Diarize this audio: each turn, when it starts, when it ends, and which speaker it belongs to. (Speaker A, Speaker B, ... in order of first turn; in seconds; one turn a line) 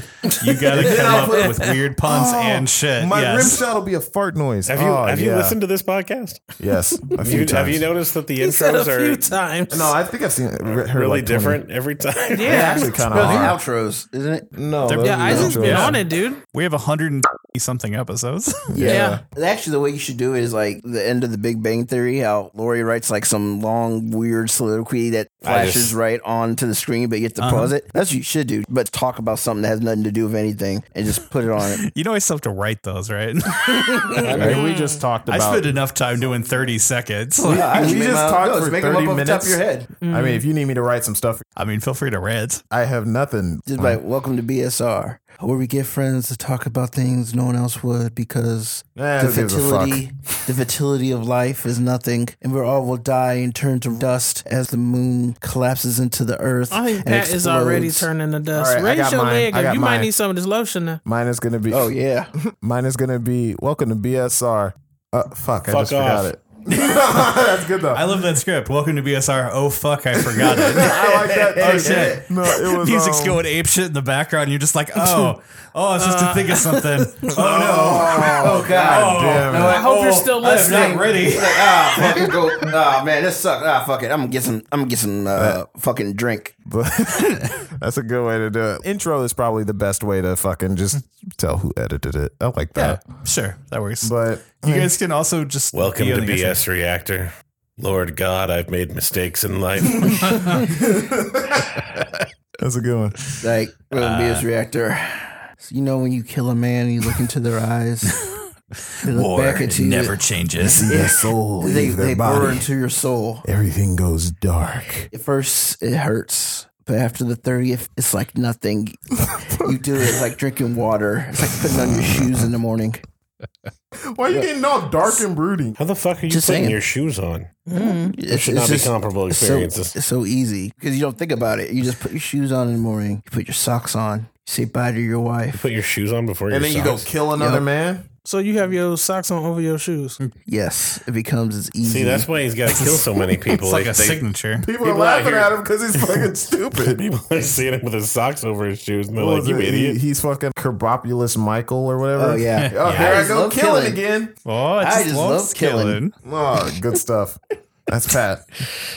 Speaker A: 0.3-1.7
Speaker B: 0.3-3.6
Speaker C: 0.7-5.6
Speaker D: 4.7-6.4
Speaker C: 6.6-7.9
Speaker D: 7.1-9.3
Speaker A: 8.4-9.9
Speaker C: 9.7-11.6
Speaker D: 10.8-12.9
Speaker A: 12.3-13.1
Speaker C: 12.4-13.6
Speaker E: 12.5-14.5
Speaker C: 14.5-16.0
Speaker B: 14.8-18.8
Speaker A: 15.0-16.4
Speaker C: 18.7-19.2
Speaker E: 18.8-31.8
Speaker A: 18.9-19.2
Speaker D: 25.4-25.9
Speaker B: 27.4-27.7
Speaker B: 31.7-34.6
Speaker A: 34.1-35.0
Speaker E: 34.1-34.6
Speaker C: 34.2-35.8
Speaker B: 35.3-37.9
Speaker C: 37.4-41.4
Speaker E: 37.5-39.9
Speaker A: 40.0-40.4
Speaker B: 41.6-42.6
Speaker C: 42.7-44.0
Speaker E: 43.6-58.1
Speaker C: 49.0-50.0
Speaker A: 56.7-61.0
Speaker C: 58.5-60.1
Speaker C: 61.0-68.0
Speaker E: 61.7-62.3
Speaker D: 65.7-66.3
Speaker B: 67.9-70.9
Speaker C: 70.3-73.4
Speaker E: 70.6-72.2
Speaker B: 71.6-82.6
Speaker A: 76.0-77.3
Speaker C: 77.3-79.8
Speaker E: 77.6-86.5
Speaker A: 79.6-81.1
Speaker C: 85.3-85.6
Speaker C: 86.7-93.0
Speaker B: 92.7-96.6
Speaker C: 94.0-94.9
Speaker D: 95.7-100.7
Speaker C: 100.1-103.2
Speaker E: 103.4-108.2
Speaker B: 103.9-104.5
Speaker B: 108.3-110.9
Speaker E: 109.0-110.2
Speaker C: 110.6-112.7
Speaker E: 110.9-113.4
Speaker C: 113.4-115.1
Speaker E: 115.1-123.0
Speaker C: 119.2-120.2
Speaker C: 124.0-125.8
Speaker D: 125.8-127.6
Speaker E: 126.3-126.8
Speaker A: 127.7-128.2
Speaker E: 127.7-135.6
Speaker D: 128.3-129.9
Speaker D: 135.5-137.1
Speaker C: 136.5-138.1
Speaker E: 137.4-137.6
Speaker A: 138.2-140.2
Speaker E: 140.4-143.1
Speaker D: 141.8-144.2
Speaker B: 143.6-144.7
Speaker C: 144.6-147.0
Speaker D: 144.8-145.6
Speaker D: 146.8-150.0
Speaker C: 149.2-154.3
Speaker E: 152.2-154.0
Speaker D: 152.8-153.3
Speaker B: 154.4-156.1
Speaker E: 154.8-156.0
Speaker C: 156.2-158.4